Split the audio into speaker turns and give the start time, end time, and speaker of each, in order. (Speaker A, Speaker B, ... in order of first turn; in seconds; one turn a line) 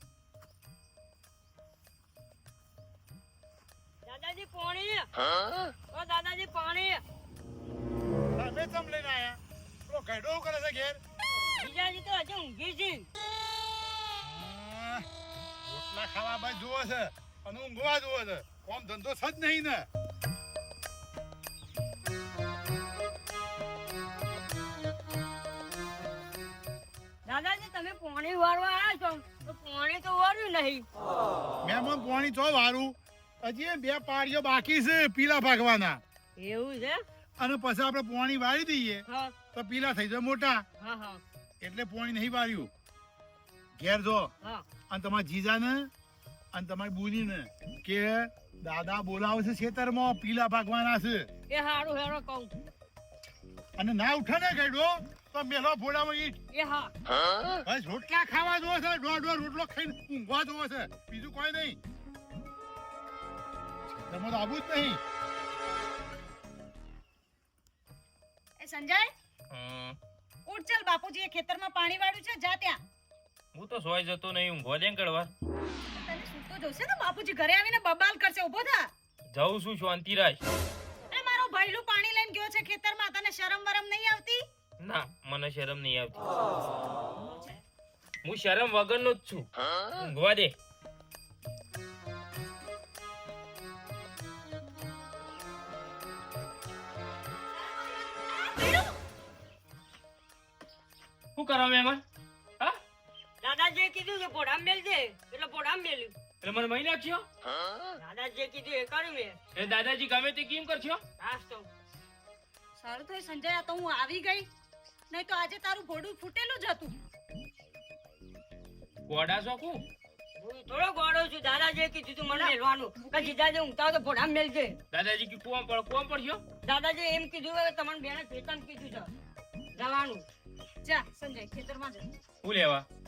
Speaker A: 4.0-5.1
Speaker A: 5.9-7.0
Speaker B: 8.4-11.0
Speaker A: 11.6-13.1
Speaker B: 14.2-15.1
Speaker B: 15.7-19.9
Speaker A: 27.3-30.9
Speaker B: 31.6-36.0
Speaker A: 36.4-37.0
Speaker B: 37.4-40.6
Speaker A: 39.1-39.3
Speaker A: 40.8-41.2
Speaker B: 41.6-42.7
Speaker B: 43.8-44.3
Speaker B: 44.9-45.9
Speaker B: 46.5-51.3
Speaker A: 51.5-52.5
Speaker B: 53.8-56.4
Speaker A: 56.5-56.9
Speaker B: 57.6-61.8
Speaker B: 63.9-65.0
Speaker C: 68.6-69.1
Speaker D: 69.5-70.0
Speaker C: 70.5-72.8
Speaker D: 73.5-75.3
Speaker C: 75.9-78.9
Speaker D: 79.3-80.4
Speaker C: 81.1-84.4
Speaker D: 84.8-86.3
Speaker C: 87.2-87.6
Speaker D: 88.2-90.5
Speaker C: 98.4-98.9
Speaker D: 101.4-102.0
Speaker A: 103.4-106.2
Speaker D: 106.4-107.2
Speaker A: 108.0-109.4
Speaker D: 109.5-111.0
Speaker A: 111.2-111.7
Speaker C: 112.8-114.5
Speaker C: 115.1-116.9
Speaker D: 119.1-119.8
Speaker A: 120.4-124.8
Speaker C: 122.3-123.4
Speaker D: 124.9-126.4
Speaker A: 126.6-129.1
Speaker A: 129.8-130.2
Speaker C: 130.8-132.1
Speaker D: 132.4-132.8